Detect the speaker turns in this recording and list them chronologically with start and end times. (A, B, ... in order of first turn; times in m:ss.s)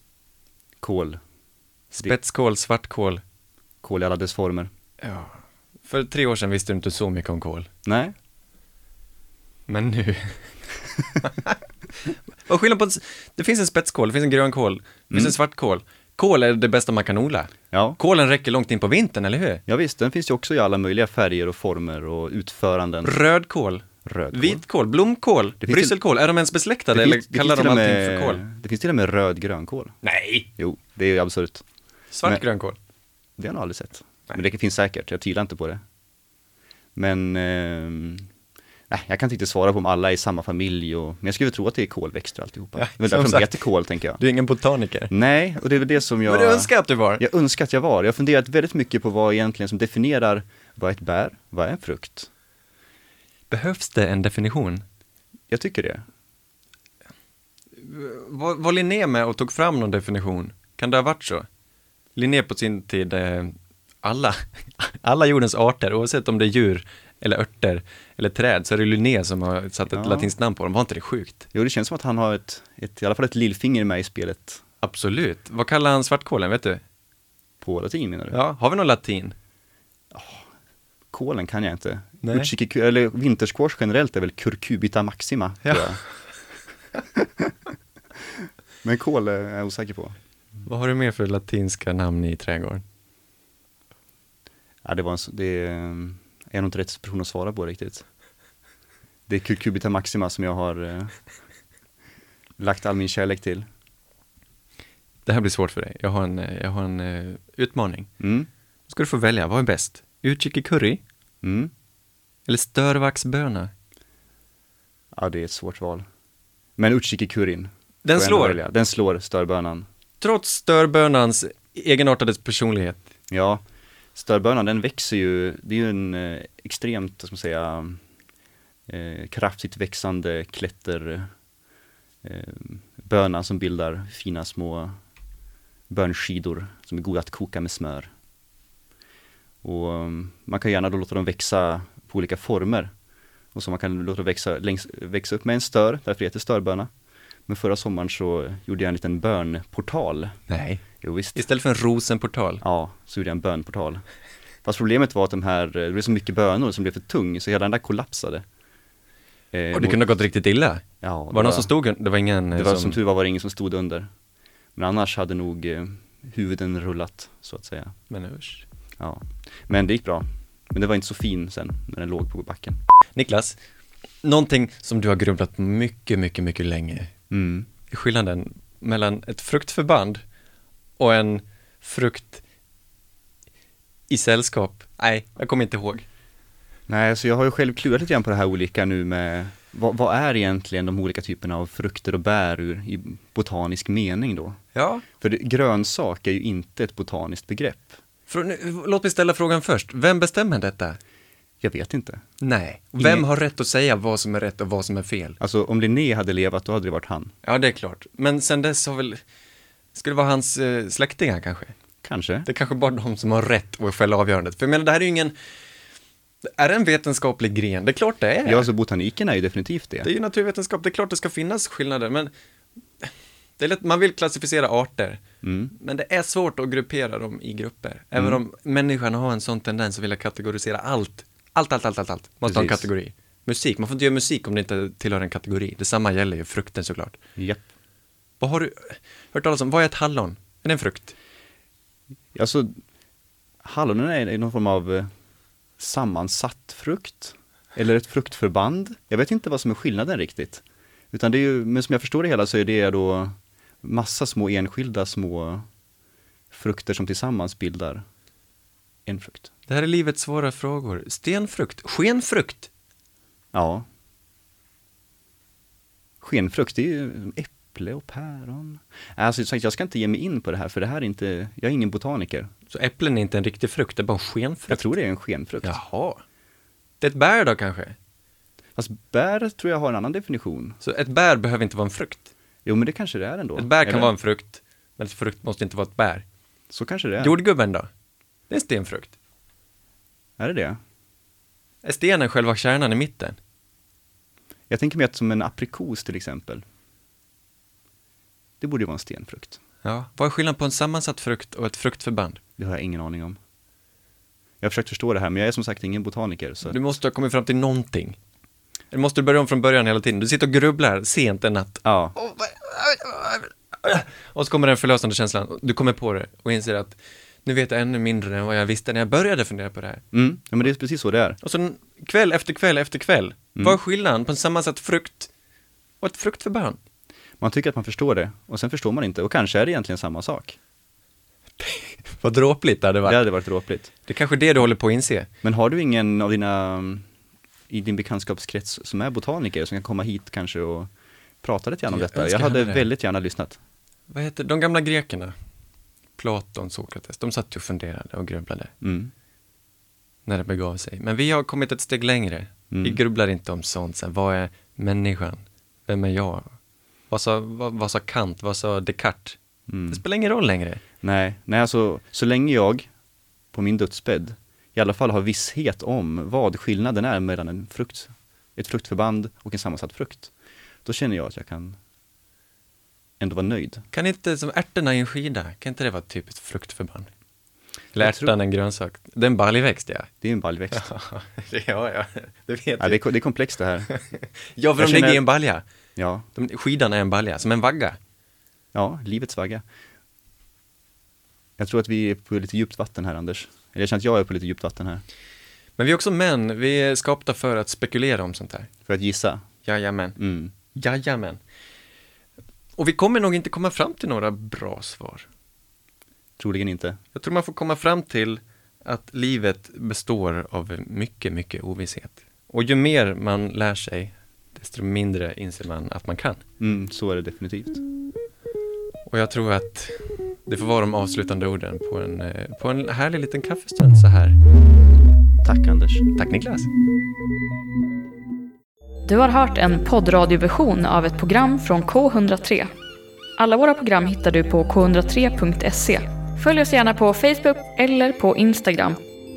0:00.8-0:01.2 A
0:01.9-0:03.2 B
0:03.8-0:04.7 A
0:05.0-0:07.7 B
0:07.8-0:08.1 A
0:09.7-0:10.4 B
0:11.2-0:19.6 B
0:15.1-0:15.4 A
0:17.7-0:18.0 A
0:19.7-0:23.2 A
0:23.0-0:28.4 B
0:24.0-0:24.6 A
0:25.6-0:26.0 A
0:26.9-0:30.0 A
0:30.0-0:30.5 B
0:30.6-0:31.6 A
0:32.1-0:32.8 B
0:33.4-0:35.8 A
0:37.0-0:38.3 A
0:38.9-0:44.2 A
0:42.8-0:43.6 B
0:44.2-0:45.1 B
0:45.1-0:52.3 A
0:46.3-0:47.2 B
0:53.5-0:54.8 B
0:55.5-0:56.0 A
0:57.8-1:01.5 B
1:02.2-1:11.4 B
1:09.9-1:10.3 A
1:11.5-1:14.6 A
1:14.8-1:16.8 B
1:17.6-1:18.4 A
1:18.3-1:19.4 B
1:20.1-1:20.5 A
1:21.1-1:26.0 A
1:22.2-1:22.5 B
1:27.2-1:27.5 A
1:28.8-1:30.1 A
1:30.6-1:32.8 B
1:34.8-1:38.0 A
1:39.3-1:41.1 A
1:42.6-1:43.6 A
1:45.3-1:48.1 B
1:48.2-1:48.5 A
1:48.9-1:51.0 B
1:51.4-1:51.7 A
1:52.5-1:53.7 B
1:55.1-1:56.0 A
1:56.8-1:59.9 A
1:58.0-1:58.6 B
2:00.2-2:03.0 B
2:03.3-2:03.6 A
2:04.2-2:08.0 A
2:08.9-2:11.3 A
2:12.2-2:14.9 A
2:15.9-2:18.1 A
2:19.6-2:22.9 A
2:23.5-2:26.9 A
2:27.5-2:30.4 A
2:30.5-2:30.8 B
2:31.0-2:31.4 A
2:31.4-2:32.6 B
2:32.6-2:34.0 A
2:34.6-2:38.4 A
2:39.5-2:40.1 A
2:39.7-2:43.0 B
2:41.0-2:41.7 A
2:42.6-2:44.1 A
2:44.8-2:47.9 A
2:48.1-2:48.6 B
2:49.0-2:52.8 A
2:53.2-2:53.6 B
2:54.2-2:57.1 B
2:57.3-2:57.7 A
2:57.9-3:00.2 B
3:01.0-3:02.4 B
3:04.1-3:06.0 B
3:06.9-3:14.6 A
3:14.8-3:15.0 B
3:15.2-3:18.0 A
3:18.3-3:21.0 B
3:21.6-3:22.2 A
3:22.4-3:25.4 B
3:23.0-3:23.3 A
3:25.4-3:27.3 A
3:27.4-3:29.2 B
3:30.0-3:31.8 B
3:32.0-3:32.5 A
3:32.4-3:35.4 B
3:36.4-3:38.7 B
3:38.4-3:40.1 A
3:40.0-3:42.3 B
3:43.0-3:45.2 B
3:45.4-3:45.7 A
3:45.8-3:57.2 B
3:48.2-3:48.4 A
3:52.5-3:52.9 A
3:57.4-3:57.6 A
3:58.4-4:01.1 B
4:02.4-4:02.7 A
4:03.6-4:05.1 A
4:05.8-4:15.7 A
4:16.5-4:18.0 A
4:19.1-4:19.5 A
4:19.7-4:22.7 B
4:23.5-4:23.9 A
4:26.2-4:32.5 A
4:32.7-4:35.0 B
4:34.7-4:35.8 A
4:35.6-4:36.2 B
4:37.0-4:38.0 B
4:38.8-4:40.8 A
4:40.8-4:42.3 B
4:42.6-4:44.1 A
4:43.6-4:46.2 B
4:46.7-4:47.4 A
4:47.2-4:47.9 B
4:48.5-4:49.1 B
4:50.4-4:50.8 A
4:51.8-4:53.4 B
4:54.7-4:56.6 A
4:58.6-4:59.6 A
4:59.8-5:02.4 B
5:02.6-5:03.4 A
5:04.6-5:06.8 A
5:06.6-5:08.2 B
5:08.9-5:20.0 B
5:11.8-5:12.2 A
5:20.1-5:21.4 A
5:21.4-5:25.3 B
5:26.0-5:26.8 B
5:27.4-5:30.6 A
5:31.6-5:33.2 B
5:33.0-5:33.9 A
5:34.1-5:35.3 B
5:35.4-5:37.0 A
5:37.7-5:40.9 A
5:41.4-5:43.6 A
5:41.9-5:42.9 B
5:44.1-5:45.3 B
5:46.2-5:48.7 B
5:48.8-5:49.1 A
5:50.3-5:56.6 B
5:52.7-5:53.0 A
5:57.1-5:59.4 B
5:59.7-6:00.0 A
5:59.9-6:00.8 B
6:01.0-6:02.9 A
6:03.5-6:10.3 A
6:10.8-6:11.8 A
6:13.2-6:13.8 A
6:13.9-6:17.1 B
6:17.9-6:20.1 B
6:18.0-6:18.3 A
6:20.2-6:20.9 A
6:20.7-6:23.0 B
6:22.8-6:23.9 A
6:23.9-6:25.6 B
6:24.8-6:25.2 A
6:26.0-6:26.3 A
6:26.4-6:28.0 B
6:28.7-6:29.6 A
6:31.6-6:35.0 A
6:35.8-6:38.7 B
6:38.9-6:39.4 A
6:39.6-6:40.2 B
6:40.2-6:40.6 A
6:40.7-6:41.4 B
6:42.8-6:45.3 B
6:46.4-6:47.0 A
6:47.2-6:56.4 B
6:56.6-6:57.8 A
6:59.1-7:04.4 B
7:05.4-7:06.1 A
7:06.2-7:06.7 B
7:09.1-7:12.7 C
7:13.4-7:19.0 C